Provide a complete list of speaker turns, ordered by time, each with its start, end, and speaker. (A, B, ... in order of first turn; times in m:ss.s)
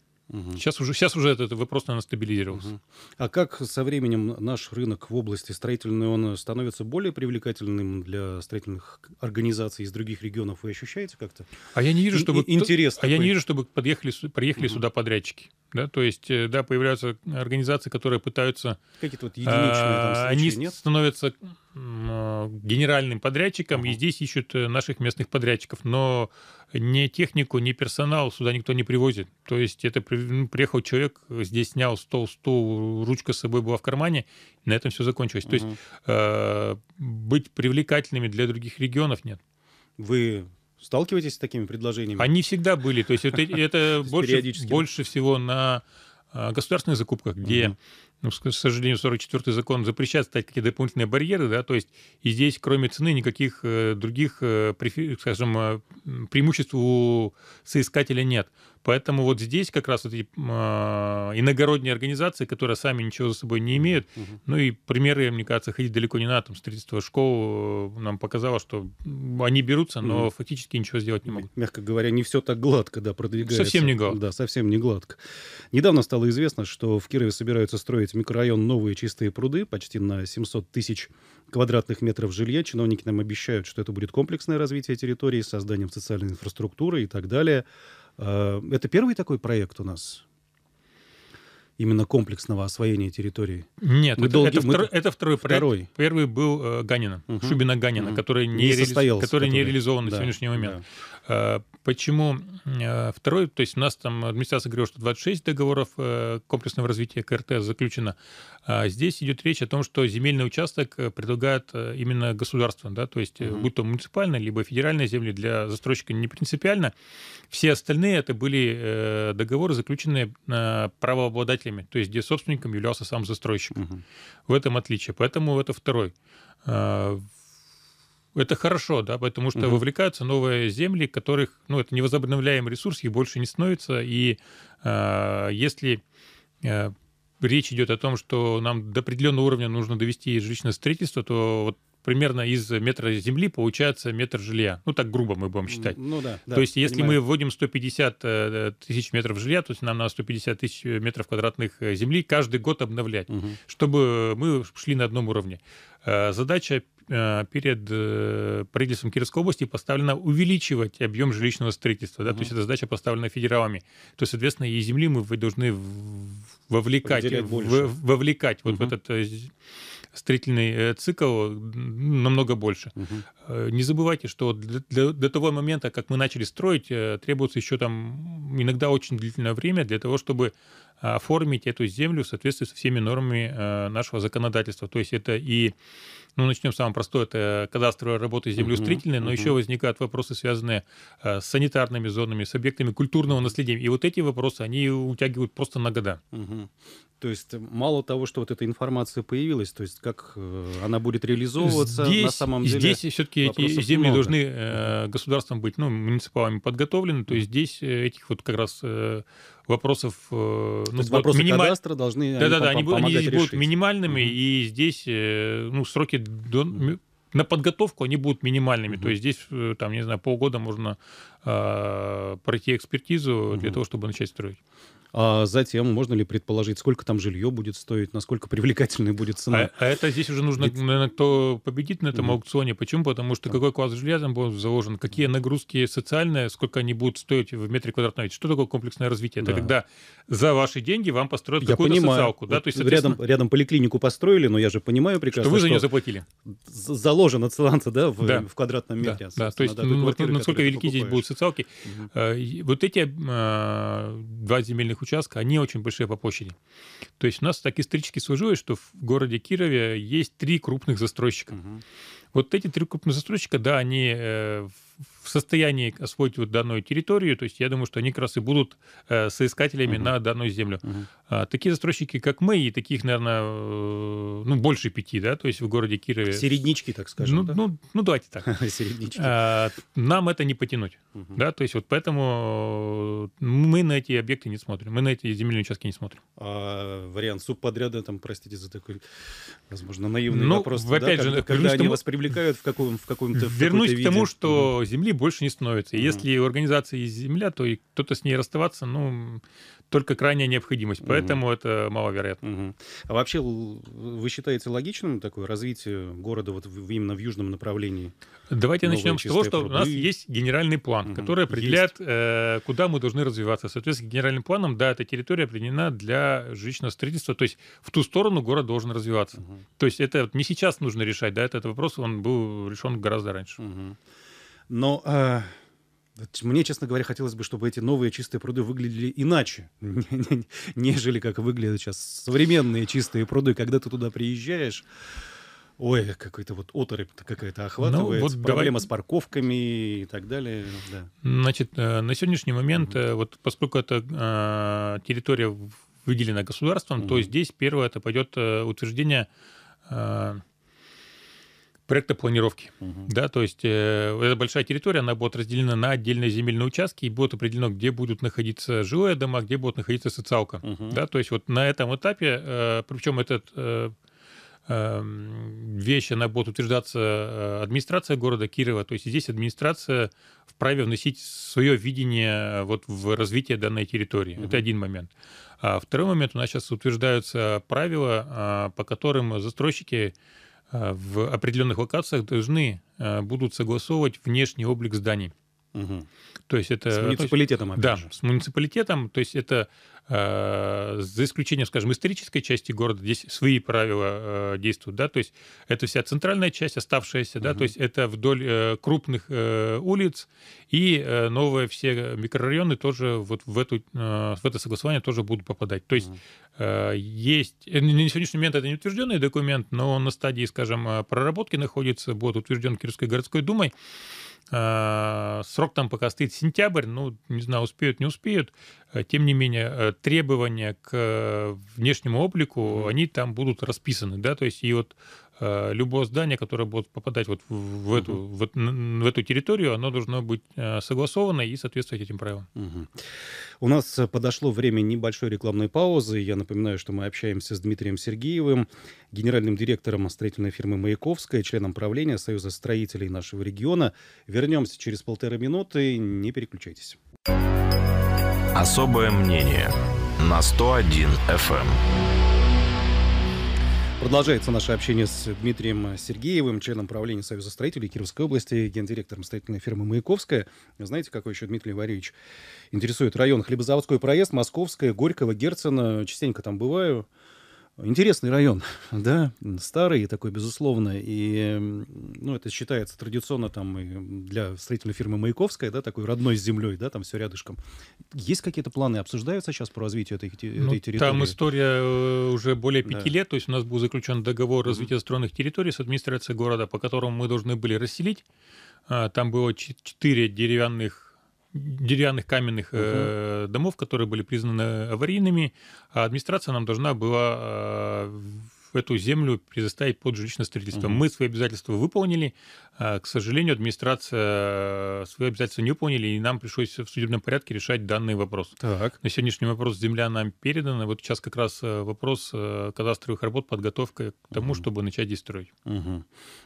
0:00.3-0:00.6 A
0:00.6-0:02.7 B
0:02.5-0:11.5 A
0:11.7-0:18.8 B
0:12.1-0:13.4 A
0:19.0-0:20.8 A
0:19.4-0:39.4 B
0:35.4-0:35.8 A
0:40.0-0:42.3 A
0:42.2-1:11.5 B
0:44.0-0:44.9 A
0:47.4-0:47.7 A
1:03.8-1:04.4 A
1:10.0-1:10.3 A
1:11.3-1:27.6 A
1:13.4-1:14.2 B
1:28.2-1:30.2 A
1:31.8-1:35.9 A
1:33.8-1:56.9 B
1:37.3-1:40.8 A
1:53.4-1:53.7 A
1:57.5-2:03.9 B
2:03.7-2:04.0 A
2:04.5-2:06.1 B
2:06.6-2:07.3 B
2:08.4-2:16.0 B
2:09.6-2:09.8 A
2:16.6-2:26.0 B
2:25.7-2:27.2 A
2:26.5-2:49.5 B
2:33.3-2:33.6 A
2:42.2-2:42.5 A
2:47.0-2:47.9 A
2:48.7-2:48.9 A
2:50.1-3:05.8 B
2:53.0-2:53.2 A
3:06.4-3:16.2 B
3:08.6-3:09.6 A
3:16.3-3:24.9 A
3:21.6-3:31.8 B
3:31.0-3:34.3 A
3:32.4-3:44.6 B
3:43.5-3:43.8 A
3:45.1-3:49.7 A
3:49.5-4:03.2 B
3:59.4-3:59.7 A
4:01.6-4:05.9 A
4:05.3-4:06.3 B
4:06.4-4:11.3 A
4:09.0-4:16.6 B
4:11.8-4:12.1 A
4:17.2-4:21.6 B
4:21.5-4:21.8 A
4:22.3-4:36.5 B
4:29.9-4:30.1 A
4:30.8-4:31.1 A
4:36.3-4:37.6 A
4:37.2-4:38.5 B
4:38.4-4:39.4 A
4:39.1-4:46.2 B
4:41.1-4:41.4 A
4:46.4-4:54.7 A
4:50.3-4:52.0 B
4:53.3-5:02.4 B
4:55.9-4:56.2 A
5:01.0-5:01.4 A
5:02.4-5:08.1 A
5:08.5-5:23.6 B
5:08.8-5:10.1 A
5:11.0-5:11.9 A
5:23.6-5:24.0 A
5:24.7-5:25.6 A
5:26.2-5:34.9 A
5:35.8-5:41.1 A
5:37.8-5:38.8 B
5:41.2-5:49.3 B
5:47.0-5:47.3 A
5:49.9-5:50.4 B
5:51.9-6:03.9 B
5:52.8-5:53.1 A
6:00.6-6:01.0 A
6:04.7-6:20.1 B
6:14.4-6:14.7 A
6:20.7-6:25.3 B
6:25.7-6:26.1 A
6:26.5-6:53.7 B
6:26.9-6:28.1 A
6:37.4-6:37.7 A
6:54.5-7:12.5 B
7:02.6-7:02.9 A
7:07.9-7:08.2 A
7:12.6-7:13.0 A
7:13.6-7:27.0 A
7:28.6-7:31.8 C
7:34.0-7:42.1 A
7:42.7-7:47.1 A
7:47.8-7:57.6 A
7:58.1-8:01.4 A
8:00.6-8:08.2 B
8:02.8-8:03.1 A
8:08.9-8:35.5 B
8:12.8-8:13.1 A
8:20.7-8:21.0 A
8:28.6-8:29.0 A
8:34.3-8:34.6 A
8:35.6-8:36.1 A